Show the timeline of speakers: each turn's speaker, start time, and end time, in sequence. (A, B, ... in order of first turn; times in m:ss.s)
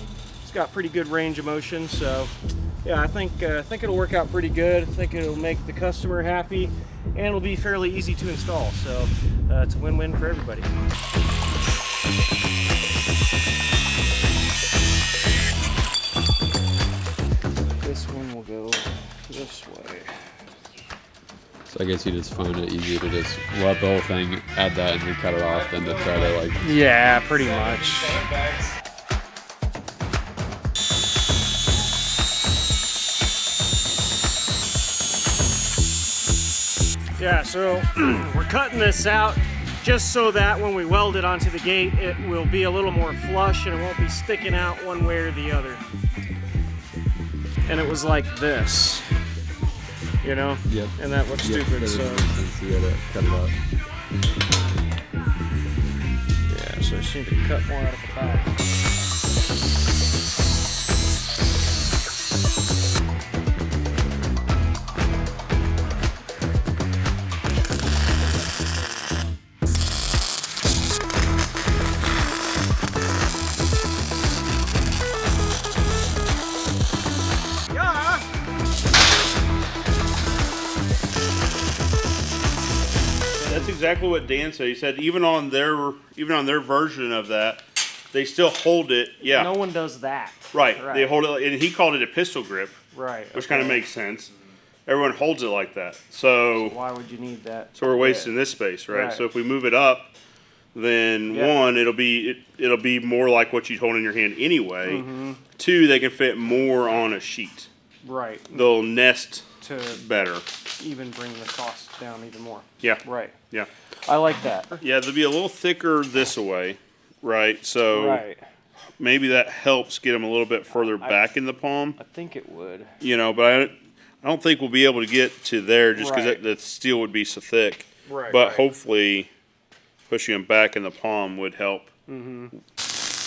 0:00.4-0:10.7 A
0:17.8-0:20.1 A
0:21.7-0:26.7 B
0:26.6-0:28.4 A
0:37.2-0:45.8 A
0:47.6-0:49.1 A
0:50.2-0:52.3 A
0:50.7-0:53.6 B
0:56.5-0:58.5 A
1:17.7-1:18.2 A
1:23.4-1:23.7 A
1:23.4-1:29.5 C
1:29.2-1:31.1 A
1:30.5-1:32.8 C
1:32.9-1:33.8 A
1:33.3-1:34.3 C
1:34.8-1:36.8 C
1:36.5-1:38.3 A
1:37.8-1:40.1 C
1:38.9-1:39.2 A
1:40.7-1:47.7 C
1:41.3-1:41.6 A
1:44.8-1:45.4 A
1:48.0-1:48.7 A
1:48.5-1:50.4 C
1:49.6-1:50.0 A
1:50.8-1:53.4 A
1:52.8-1:53.7 C
1:54.0-1:54.8 A
1:54.8-1:58.2 C
1:57.9-1:58.4 A
1:59.0-2:02.0 C
2:00.7-2:01.3 A
2:02.0-2:02.9 A
2:03.0-2:09.3 C
2:05.9-2:06.4 A
2:08.1-2:08.6 A
2:10.1-2:11.9 C
2:12.1-2:12.5 A